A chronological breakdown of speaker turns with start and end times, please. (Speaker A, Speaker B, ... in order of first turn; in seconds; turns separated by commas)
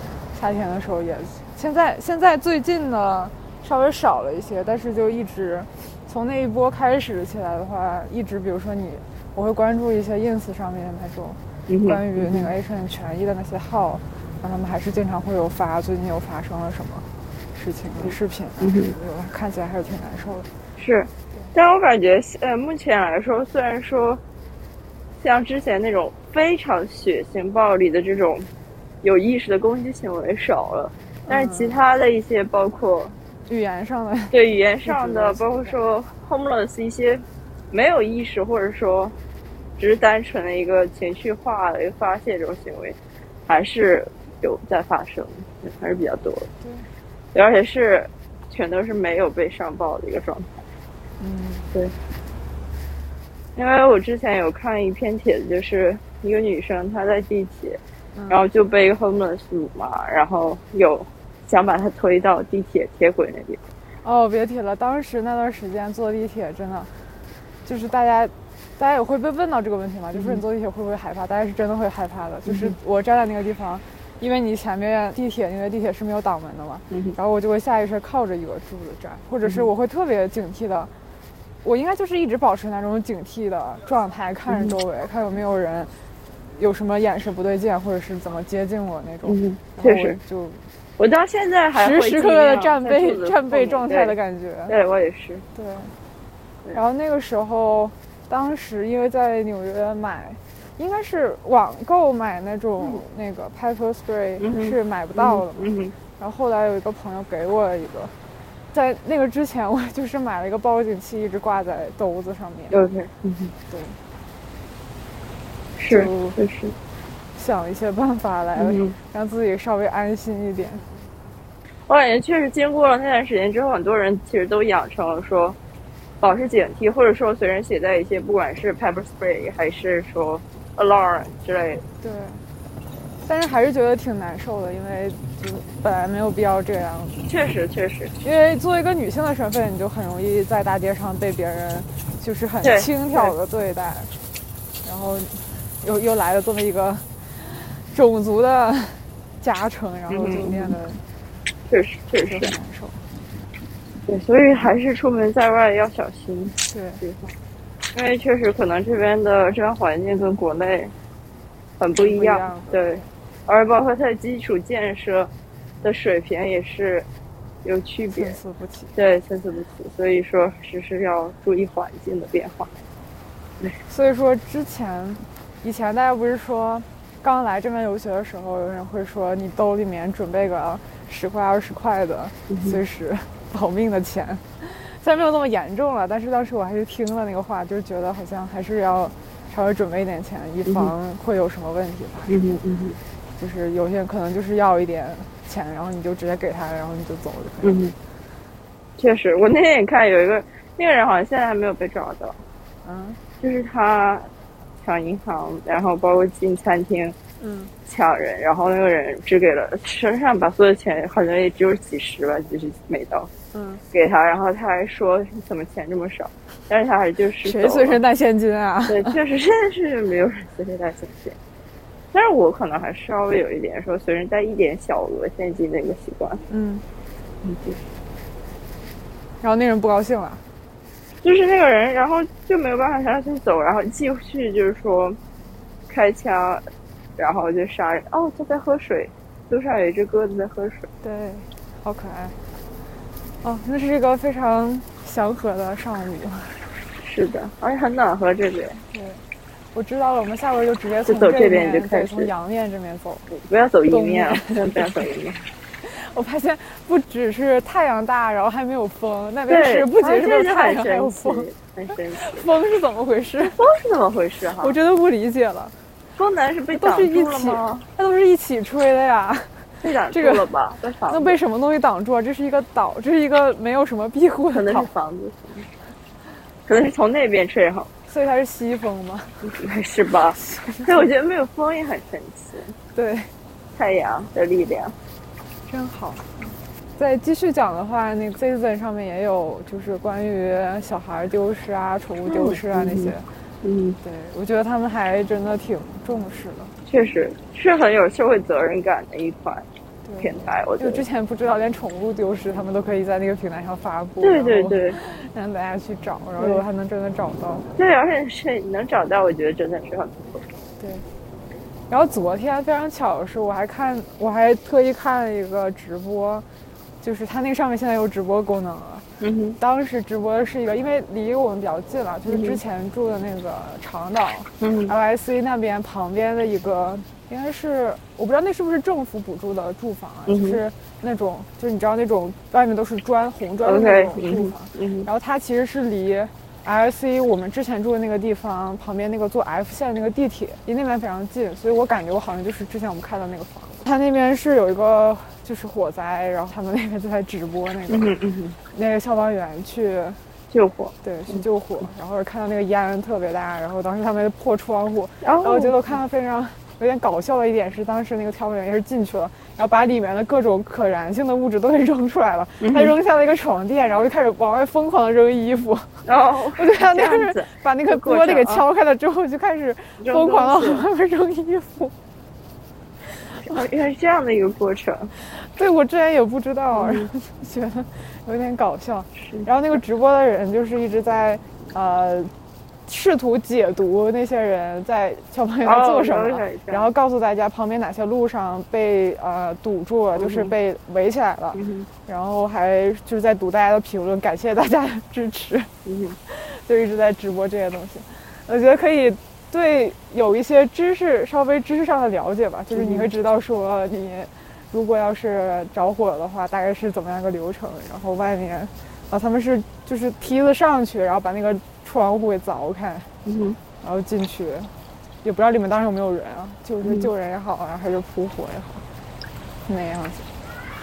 Speaker A: 0.3-20.5, Speaker B: 11.7-12.5, Speaker B: 18.0-18.9, Speaker B: 20.8-24.2, Speaker B: 25.2-28.5, Speaker B: 29.0-33.1, Speaker A: 31.3-31.8, Speaker A: 33.5-35.8, Speaker B: 34.3-39.1, Speaker B: 39.8-46.5, Speaker A: 46.6-46.9, Speaker B: 47.3-50.6, Speaker A: 51.2-51.7, Speaker B: 53.5-63.6, Speaker A: 58.1-58.4, Speaker A: 64.0-66.9, Speaker A: 67.6-80.9, Speaker B: 70.1-70.4, Speaker B: 72.5-72.8, Speaker B: 76.9-77.2, Speaker A: 81.6-85.9, Speaker B: 84.5-84.8, Speaker A: 86.6-90.6, Speaker B: 89.2-90.2, Speaker B: 91.0-94.2, Speaker A: 91.7-94.7, Speaker B: 94.7-95.4, Speaker A: 95.5-95.9, Speaker A: 96.7-108.1, Speaker B: 104.4-105.9, Speaker A: 108.7-112.8, Speaker B: 112.7-113.5, Speaker A: 113.7-114.0, Speaker B: 115.8-116.7, Speaker A: 115.9-116.4, Speaker A: 117.3-120.8, Speaker B: 118.5-119.0, Speaker B: 121.9-125.6, Speaker B: 126.2-131.8, Speaker A: 132.0-132.4, Speaker A: 133.2-137.2, Speaker B: 137.2-138.1, Speaker A: 138.2-144.1, Speaker B: 142.6-143.3, Speaker A: 144.8-151.0, Speaker B: 150.1-150.7, Speaker B: 151.7-152.5, Speaker A: 152.2-153.0, Speaker B: 154.1-157.3, Speaker A: 156.7-157.0, Speaker B: 157.9-160.9, Speaker B: 161.8-165.3, Speaker A: 162.0-163.1, Speaker B: 165.8-167.1, Speaker B: 167.6-168.4, Speaker A: 168.1-168.9, Speaker B: 168.9-172.7, Speaker A: 173.8-192.4, Speaker B: 182.5-182.8, Speaker B: 190.7-190.9, Speaker B: 192.3-193.0, Speaker A: 193.4-197.9, Speaker B: 197.6-197.9, Speaker B: 199.0-202.4, Speaker A: 202.8-203.2, Speaker B: 203.4-204.3, Speaker B: 204.8-207.2, Speaker A: 207.4-207.7, Speaker B: 207.8-213.3, Speaker A: 213.5-213.8, Speaker B: 213.9-218.0, Speaker A: 217.4-219.2, Speaker B: 218.9-221.4, Speaker B: 222.1-226.4, Speaker A: 226.5-226.8, Speaker B: 227.4-227.8, Speaker A: 229.4-230.4, Speaker B: 231.2-235.2, Speaker B: 235.9-236.6, Speaker B: 237.2-240.9, Speaker A: 241.0-242.3, Speaker A: 243.4-246.6, Speaker B: 247.0-248.8, Speaker A: 248.9-249.2, Speaker A: 249.7-253.3, Speaker B: 251.1-252.3, Speaker B: 253.3-255.5, Speaker A: 253.9-254.9, Speaker A: 255.8-263.6, Speaker B: 259.5-262.4, Speaker B: 263.6-264.8, Speaker A: 264.6-265.7, Speaker B: 266.2-267.9, Speaker A: 266.7-270.4, Speaker B: 269.8-271.4, Speaker A: 271.1-274.9, Speaker B: 274.5-275.7, Speaker B: 276.7-277.9, Speaker A: 278.1-279.6, Speaker B: 279.4-282.7, Speaker A: 280.3-281.1, Speaker A: 282.9-283.3, Speaker B: 283.8-284.9, Speaker A: 285.7-293.3, Speaker B: 292.3-294.0, Speaker A: 294.0-296.7, Speaker B: 296.9-299.6, Speaker A: 300.0-307.6, Speaker B: 300.2-301.0, Speaker B: 304.2-305.0, Speaker B: 307.8-310.5, Speaker A: 310.8-311.0, Speaker A: 311.9-316.4, Speaker A: 317.0-319.1, Speaker B: 319.2-319.6, Speaker A: 319.6-348.1, Speaker B: 322.3-322.6, Speaker B: 324.6-324.9, Speaker B: 330.3-330.6, Speaker B: 333.6-335.1, Speaker B: 347.9-348.6, Speaker A: 348.7-350.2, Speaker B: 350.5-351.4, Speaker A: 351.0-366.0, Speaker B: 355.2-355.7, Speaker B: 362.6-362.9, Speaker B: 366.0-368.6, Speaker A: 366.6-371.9, Speaker B: 370.0-370.8, Speaker A: 373.2-373.6, Speaker B: 373.4-375.1, Speaker A: 375.2-382.3, Speaker B: 376.7-377.1, Speaker B: 379.2-379.4, Speaker A: 382.9-395.7, Speaker B: 385.6-386.9, Speaker B: 390.1-390.5, Speaker B: 391.5-391.9, Speaker B: 395.8-396.2, Speaker A: 396.2-413.1, Speaker B: 402.7-403.1, Speaker B: 413.2-413.6, Speaker A: 413.8-414.7, Speaker A: 415.2-418.8, Speaker B: 416.8-417.1, Speaker A: 419.6-420.3